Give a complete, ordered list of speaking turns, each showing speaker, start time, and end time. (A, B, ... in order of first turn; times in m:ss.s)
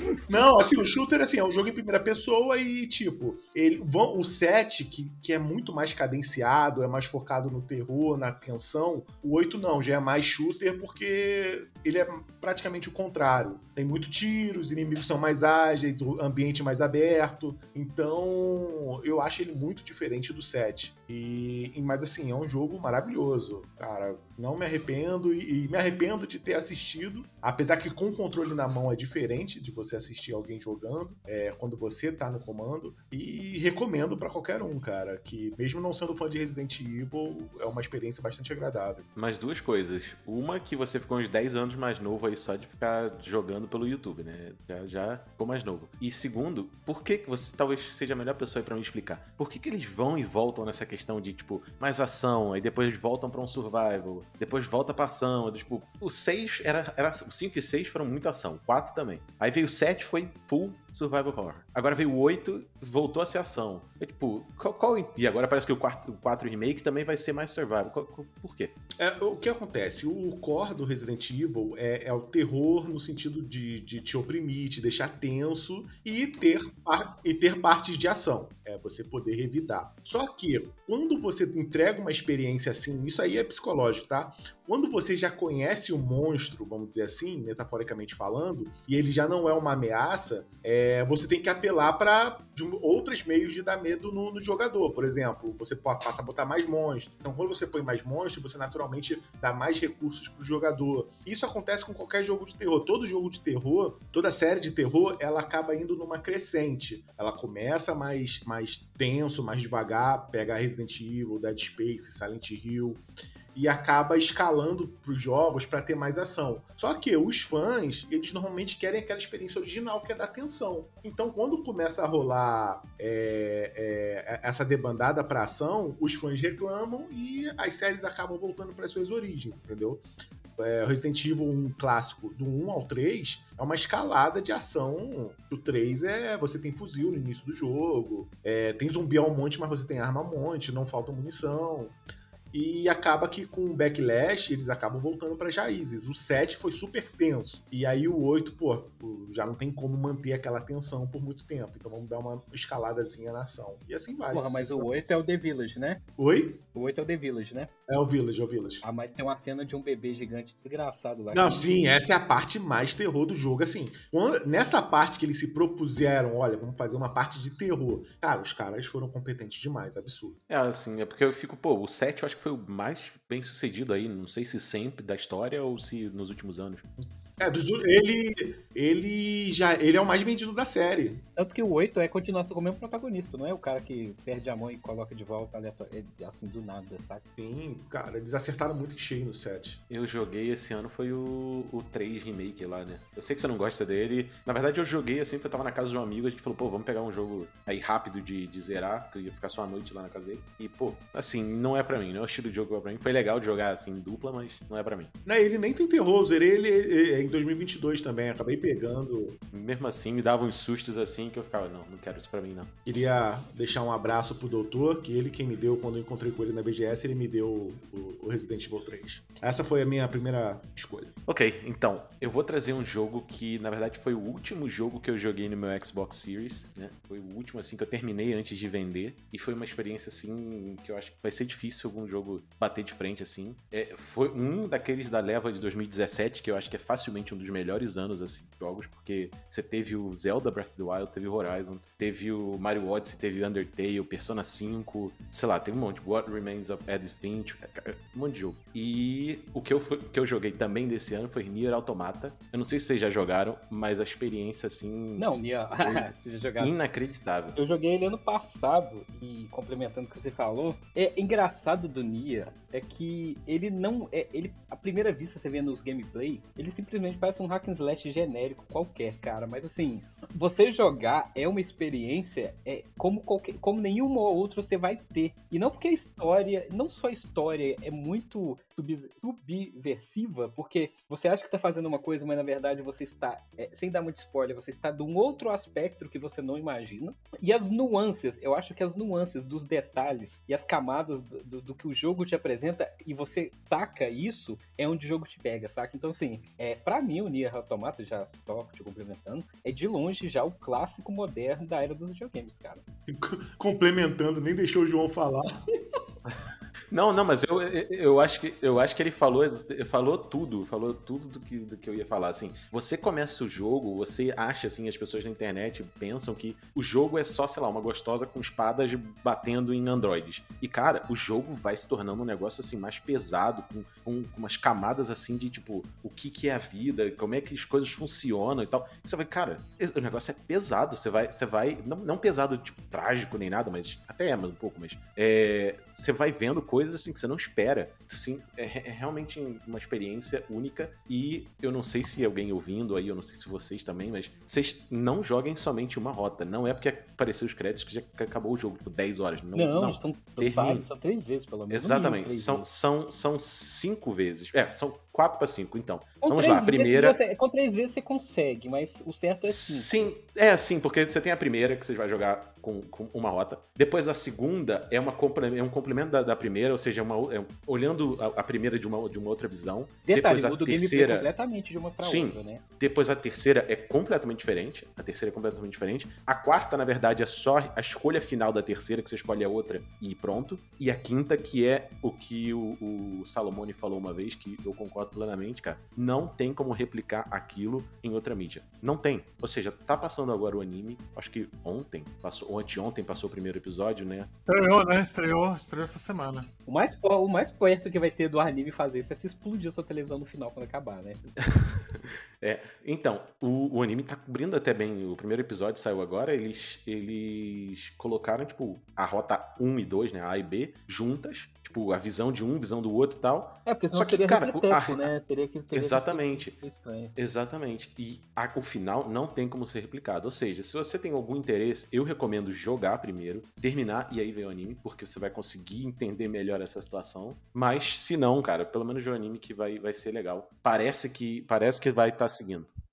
0:00.3-0:39.1 A
0:39.2-1:08.7 B
1:09.0-1:53.0 A
1:53.5-2:10.0 A
2:10.6-2:21.9 A
2:22.5-2:34.9 A
2:34.3-2:36.0 C
2:36.2-2:36.6 A
2:36.7-2:37.7 C
2:37.9-2:38.8 A
2:38.8-2:41.8 C
2:41.3-2:50.4 A
2:50.5-2:56.9 B
2:57.4-3:01.2 A
3:01.4-3:07.2 C
3:07.4-3:09.8 A
3:09.9-3:25.1 B
3:25.2-3:29.4 A
3:29.5-3:32.7 B
3:32.8-3:41.1 A
3:41.3-4:17.6 B
4:15.2-4:16.7 C
4:17.6-5:02.8 C
5:03.1-5:05.5 A
5:06.9-5:50.8 B
5:49.5-5:52.7 C
5:51.7-5:57.2 B
5:56.2-5:59.9 C
5:59.4-6:11.3 B
6:10.1-6:12.6 C
6:12.0-6:34.3 B
6:34.5-6:36.5 D
6:36.7-6:41.2 C
6:41.4-6:55.1 B
6:53.6-6:57.1 C
6:55.7-6:56.6 B
6:57.2-7:12.7 B